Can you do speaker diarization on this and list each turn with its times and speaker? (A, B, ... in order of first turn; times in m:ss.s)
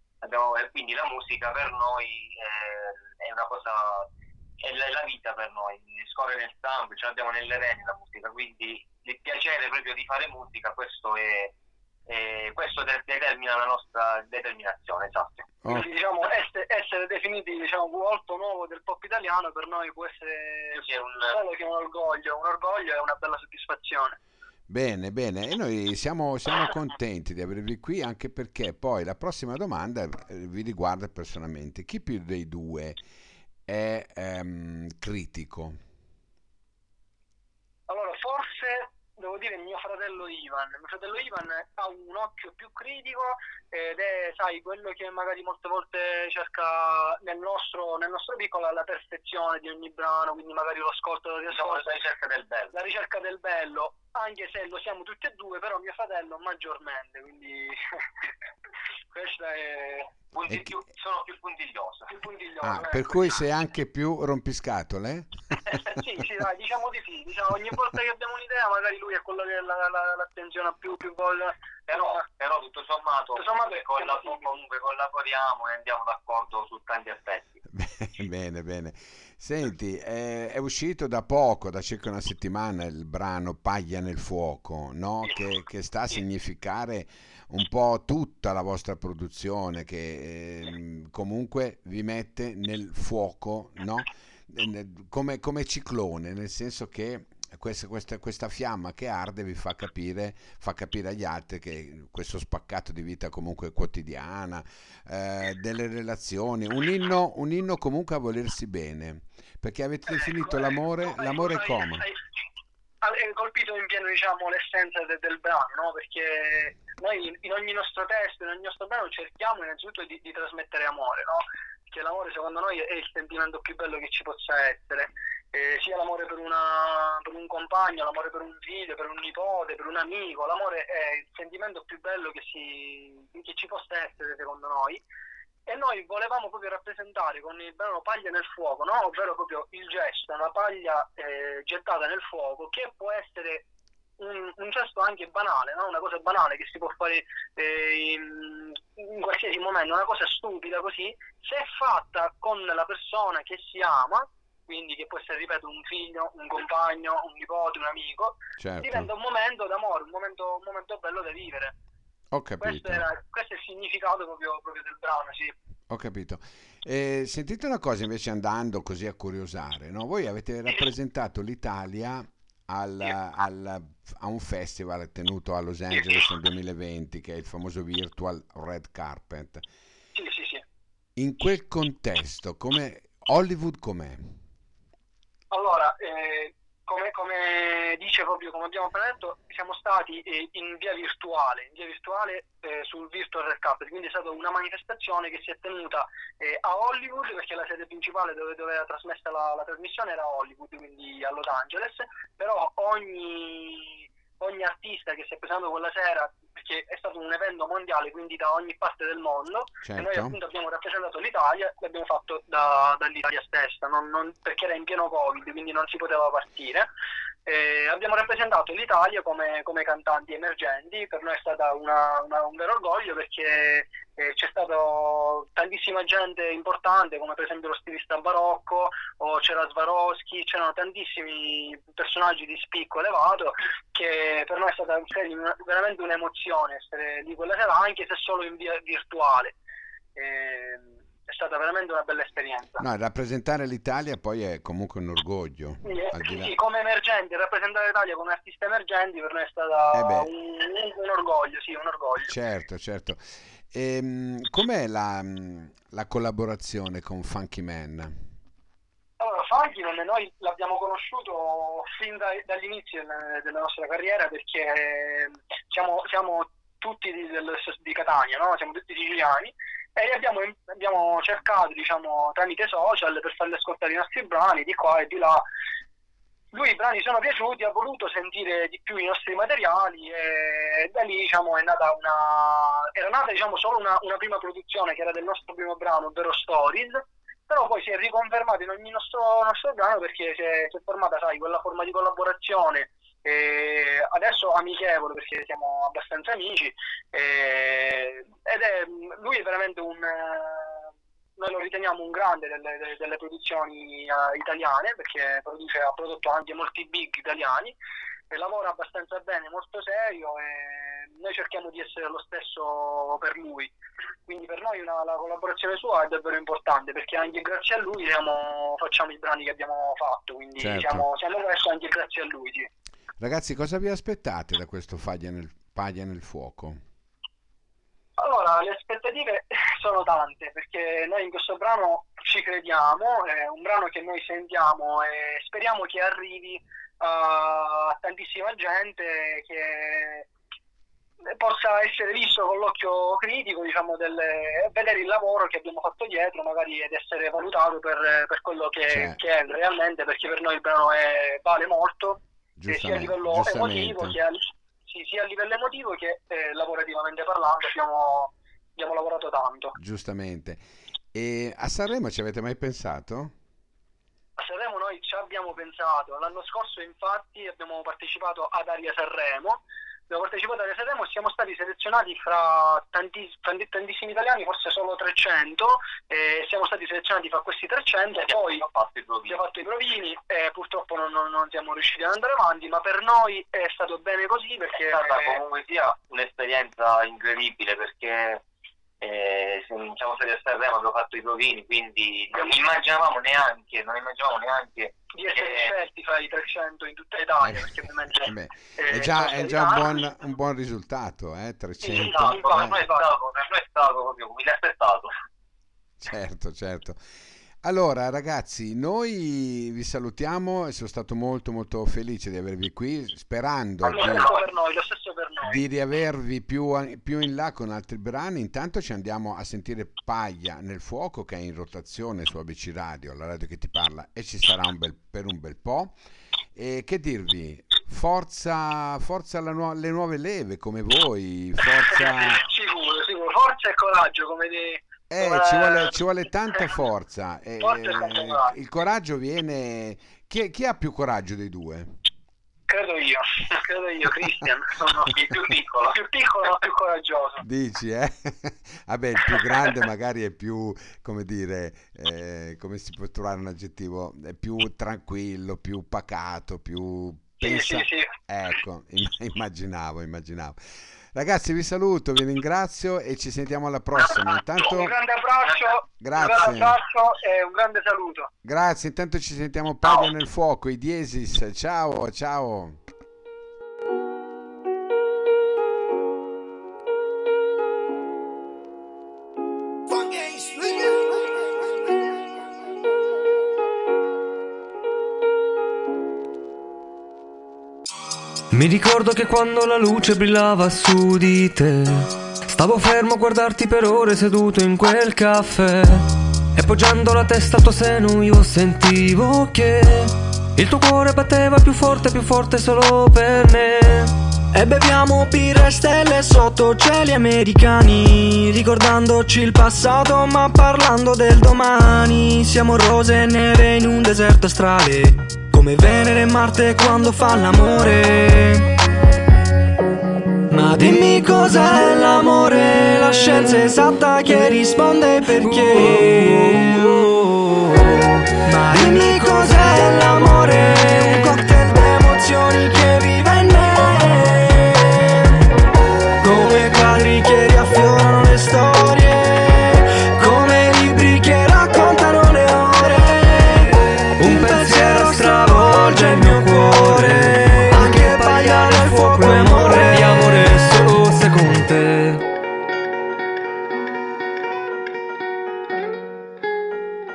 0:00.2-0:04.1 A
0:04.6-0:11.5 A
0:12.1-0:15.5 A
0:15.7-0:24.2 B
0:20.8-0:21.4 A
0:24.7-0:33.0 C
0:33.7-0:35.8 C
0:37.9-0:51.9 B
0:51.5-0:52.8 A
0:52.7-0:58.3 B
0:59.1-1:00.1 B
1:00.3-1:02.1 A
1:00.5-1:00.7 C
1:02.1-1:03.4 B
1:02.6-1:06.0 C
1:05.7-1:12.2 B
1:11.9-1:17.6 A
1:13.3-1:14.5 B
1:17.7-1:52.1 C
1:50.1-1:52.2 B
1:53.0-2:15.0 B
2:15.7-2:23.6 B
2:24.2-2:41.7 B
2:38.6-2:39.1 C
2:42.3-2:43.0 C
2:42.6-2:45.5 B
2:45.9-2:59.6 C
2:55.9-2:56.2 B
3:00.1-3:00.6 B
3:01.2-3:04.2 C
3:05.5-3:36.9 B
3:29.8-3:30.4 C
3:37.4-3:59.6 B
4:00.2-4:02.8 B
4:02.8-4:06.5 C
4:05.8-4:12.3 B
4:09.9-4:10.3 C
4:12.2-4:18.1 C
4:19.2-4:35.4 B
4:36.5-5:07.8 B
5:08.3-5:13.7 B
5:14.3-5:22.7 B
5:20.6-5:21.1 C
5:23.2-5:26.8 C
5:28.2-5:40.3 B
5:41.3-5:59.7 B
5:48.9-5:49.2 C
5:52.6-5:54.2 C
5:59.8-6:00.6 C
6:01.1-6:03.3 C
6:04.4-6:18.6 B
6:18.1-6:19.4 A
6:19.2-6:25.4 B
6:24.7-6:28.4 A
6:29.0-6:35.7 A
6:35.1-6:40.1 B
6:37.4-6:42.8 C
6:41.8-6:43.1 B
6:42.1-6:45.1 A
6:46.0-6:47.0 C
6:47.6-6:54.3 C
6:53.8-6:55.6 B
6:55.4-7:06.0 C
7:06.5-7:12.4 C
7:12.0-7:16.0 B
7:15.1-7:21.8 C
7:17.6-7:18.5 B
7:22.7-7:25.1 B
7:25.1-7:26.0 A
7:25.9-7:27.4 B
7:27.4-7:44.9 C
7:37.4-7:38.1 B
7:44.0-7:48.3 B
7:46.0-7:46.8 C
7:48.4-7:52.8 C
7:49.8-7:50.1 A
8:08.5-8:24.1 D
8:24.5-8:38.7 E
8:40.5-8:47.1 E
8:45.4-8:47.9 D
8:48.0-8:55.4 E
8:56.2-9:10.3 E
9:04.2-9:12.2 D